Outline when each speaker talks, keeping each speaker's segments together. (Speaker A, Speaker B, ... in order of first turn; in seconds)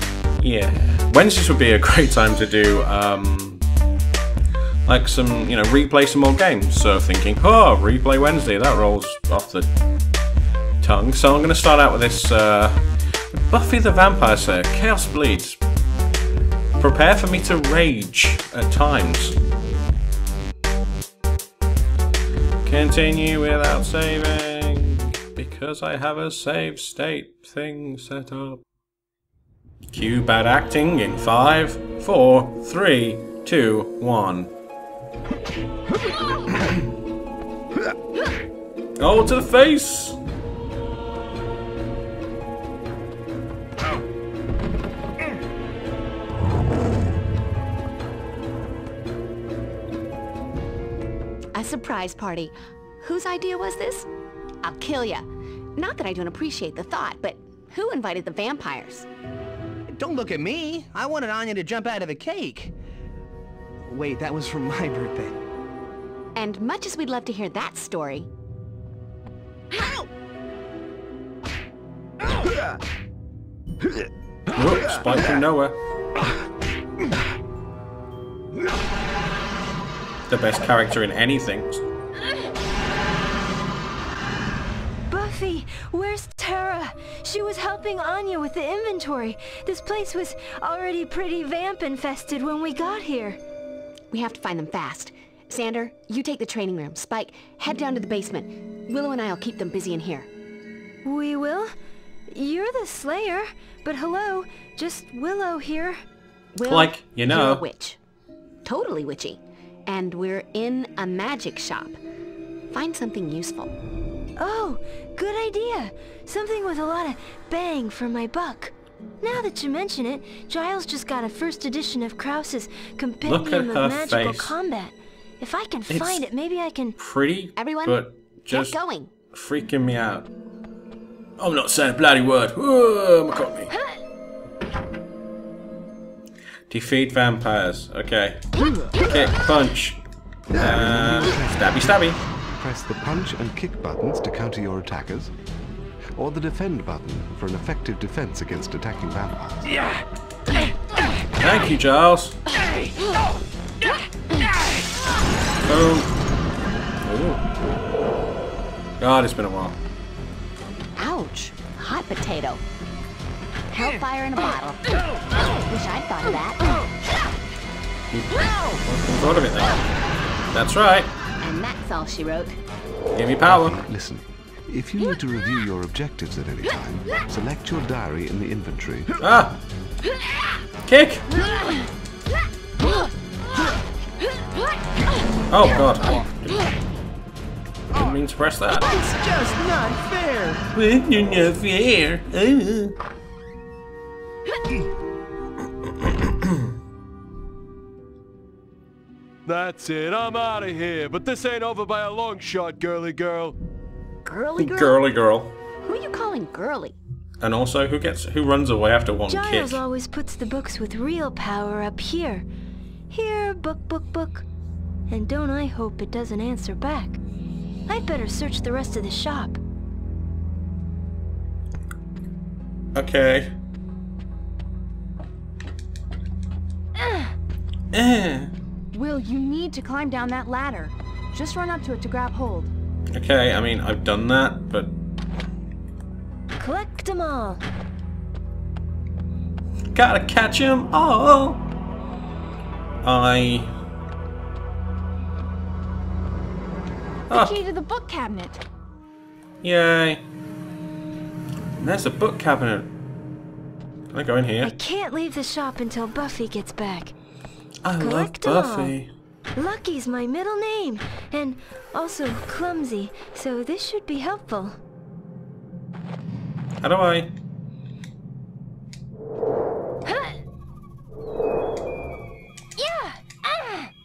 Speaker A: 0.4-3.6, 4.9-9.7, 10.8-15.6, 16.8-19.4, 22.6-28.6, 29.9-34.5, 39.0-40.2, 74.5-75.8, 80.3-81.8, 106.7-107.6, 123.2-124.5, 125.9-126.2, 127.0-128.8, 129.3-130.3, 131.4-133.7, 136.7-138.4, 139.1-140.0, 140.6-142.2, 151.4-152.4, 155.7-156.1, 157.0-157.4, 159.0-159.8, 168.1-169.9, 170.5-171.1, 173.1-173.8, 179.2-179.6, 180.9-181.2, 185.5-186.7, 187.9-188.9, 190.7-192.9, 204.6-205.6, 207.4-209.8, 222.9-223.5, 227.9-228.5, 233.1-234.9, 239.9-241.6, 243.0-243.7, 249.6-250.2, 251.8-252.9, 254.1-254.7, 257.8-259.1, 266.8-267.3
Speaker B: 51.5-54.1, 54.6-55.3, 55.8-59.1, 66.3-68.3, 94.1-100.3, 106.5-108.0, 108.7-112.0, 112.7-113.8, 127.6-129.1, 161.0-162.6, 163.7-164.8, 165.7-166.8, 171.4-172.6, 204.2-205.0, 205.8-206.9
Speaker C: 59.9-62.7, 63.9-65.4
Speaker D: 85.1-93.4, 101.0-101.7, 102.3-106.0, 114.4-127.0, 209.3-212.5, 213.1-214.5, 215.1-217.2, 217.9-219.6, 236.6-237.6, 254.6-257.1, 258.0-258.9, 259.6-264.8, 270.1-270.4, 272.8-273.9
Speaker E: 140.6-141.9, 142.6-145.3, 146.2-149.7, 173.4-179.1
Speaker F: 188.9-190.6, 228.9-232.7, 247.3-248.6
Speaker G: 199.5-203.6